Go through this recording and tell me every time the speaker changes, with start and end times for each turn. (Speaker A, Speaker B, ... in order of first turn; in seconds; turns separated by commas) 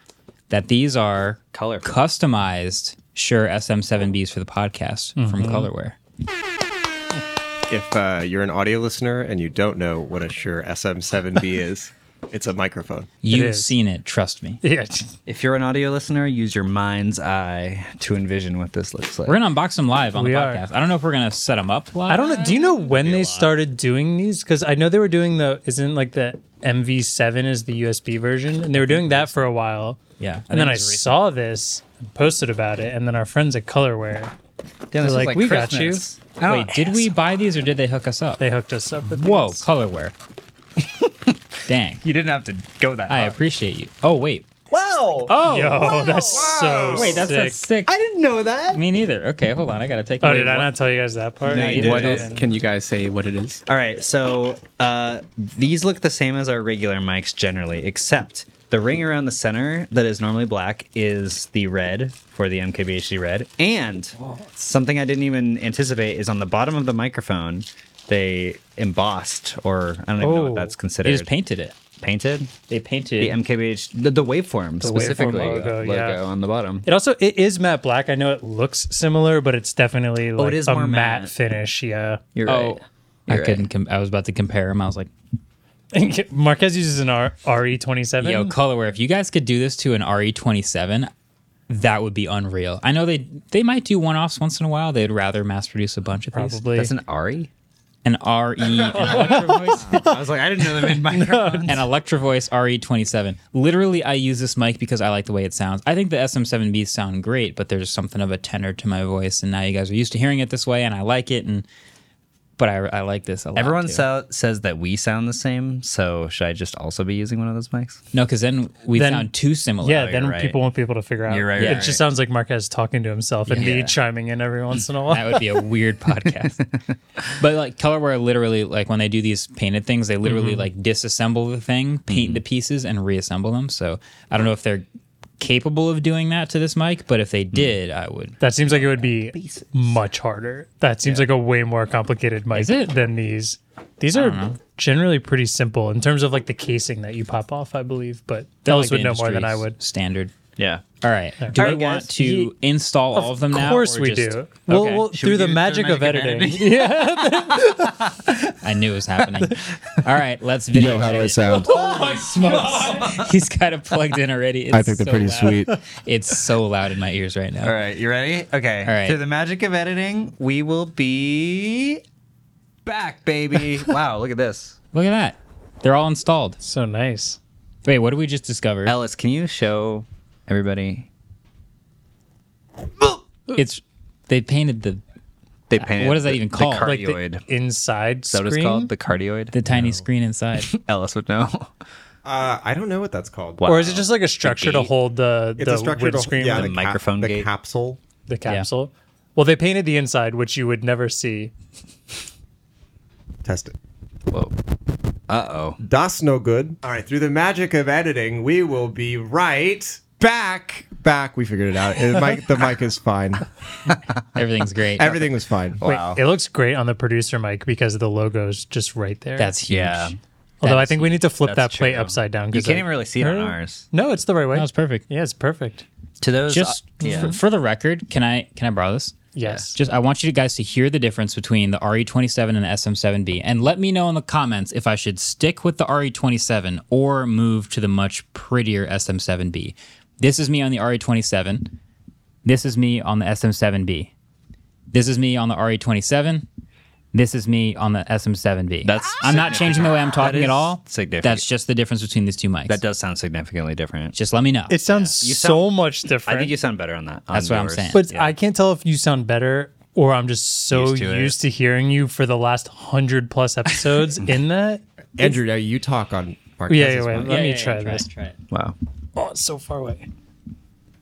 Speaker A: 0.5-6.0, Speaker B: 1.5-1.9, Speaker C: 5.2-5.7, Speaker D: 7.7-13.1, Speaker A: 13.2-14.6, Speaker C: 13.3-13.7, Speaker C: 14.6-15.1, Speaker B: 15.2-19.4, Speaker A: 19.3-22.7, Speaker C: 20.1-20.6, Speaker C: 22.1-30.0, Speaker B: 22.9-23.5, Speaker A: 28.7-29.4, Speaker A: 30.2-31.1, Speaker C: 30.5-34.3, Speaker B: 34.9-37.1, Speaker C: 35.0-36.0, Speaker A: 36.4-38.4, Speaker C: 38.4-39.7, Speaker A: 39.1-40.1, Speaker A: 41.7-42.0, Speaker B: 42.0-43.4, Speaker A: 43.1-44.5, Speaker B: 44.7-46.4, Speaker A: 45.3-46.0, Speaker C: 45.3-47.6, Speaker D: 46.2-47.2, Speaker A: 46.9-47.9, Speaker B: 47.9-48.8, Speaker A: 48.7-50.7, Speaker C: 50.2-52.4, Speaker B: 51.4-52.3, Speaker A: 51.5-52.2, Speaker E: 51.6-53.6, Speaker B: 53.7-71.3, Speaker C: 70.2-70.7, Speaker A: 71.0-71.8, Speaker B: 72.0-72.5, Speaker A: 72.7-73.4, Speaker B: 73.2-76.8, Speaker C: 74.8-76.2, Speaker A: 74.8-75.3, Speaker C: 76.8-82.2, Speaker B: 80.4-81.3, Speaker B: 82.3-83.7, Speaker A: 82.5-85.1, Speaker C: 85.9-88.5, Speaker A: 88.2-91.1, Speaker A: 91.7-96.6, Speaker C: 96.3-96.9, Speaker B: 96.8-97.5, Speaker A: 98.0-100.0, Speaker C: 99.0-101.8, Speaker B: 99.0-101.8, Speaker A: 101.7-111.7, Speaker A: 112.6-114.0, Speaker B: 113.5-118.0, Speaker A: 118.1-120.1, Speaker C: 119.0-119.3, Speaker C: 119.8-125.4, Speaker B: 120.0-120.6, Speaker B: 121.3-122.0, Speaker A: 121.6-121.9, Speaker A: 123.5-123.9, Speaker B: 123.5-123.9, Speaker A: 125.1-126.7, Speaker A: 127.4-134.8, Speaker B: 130.3-130.6, Speaker B: 132.1-132.4, Speaker A: 135.4-139.1, Speaker C: 138.4-149.8, Speaker B: 139.3-139.7, Speaker A: 142.5-142.9, Speaker A: 144.1-144.6, Speaker A: 148.6-150.3, Speaker B: 150.6-150.8, Speaker A: 151.0-155.1, Speaker C: 151.4-152.5, Speaker C: 153.2-158.3, Speaker B: 155.1-157.8, Speaker A: 158.6-167.7, Speaker D: 160.7-161.8, Speaker B: 161.5-162.2, Speaker B: 162.8-163.1, Speaker D: 164.7-165.8, Speaker B: 167.6-172.0, Speaker A: 168.8-169.2, Speaker B: 172.8-174.8, Speaker A: 174.9-176.6, Speaker C: 176.6-177.4, Speaker A: 177.8-179.0, Speaker B: 178.8-181.1, Speaker A: 183.5-185.0, Speaker B: 185.7-187.4, Speaker A: 185.8-186.9, Speaker C: 186.8-188.9, Speaker B: 188.3-189.6, Speaker A: 189.5-190.7, Speaker B: 190.7-191.7, Speaker D: 192.2-193.6, Speaker B: 193.6-194.9, Speaker C: 193.7-196.7, Speaker D: 195.6-198.0, Speaker B: 196.4-197.5, Speaker C: 198.3-201.5, Speaker D: 203.4-203.7, Speaker B: 204.3-204.6, Speaker B: 205.3-205.8, Speaker D: 205.8-213.5, Speaker A: 214.3-215.2, Speaker D: 215.0-215.8, Speaker B: 215.8-216.2, Speaker C: 215.8-219.5, Speaker A: 219.4-221.2, Speaker B: 219.7-220.2, Speaker C: 220.6-225.8, Speaker B: 221.4-223.9, Speaker A: 224.5-225.0, Speaker B: 226.2-227.4, Speaker A: 226.5-229.2, Speaker C: 227.0-227.4, Speaker C: 229.3-229.8, Speaker A: 229.7-241.7, Speaker A: 242.4-244.1, Speaker A: 244.9-246.5, Speaker A: 247.1-252.8, Speaker B: 248.8-251.4, Speaker B: 252.7-254.2, Speaker A: 254.2-254.8, Speaker C: 254.7-256.5, Speaker B: 254.9-255.7, Speaker B: 256.2-258.3, Speaker A: 257.3-258.0, Speaker C: 257.9-265.4, Speaker B: 260.7-261.4, Speaker D: 265.2-267.5, Speaker C: 266.7-268.1, Speaker A: 267.2-268.4, Speaker C: 269.1-270.1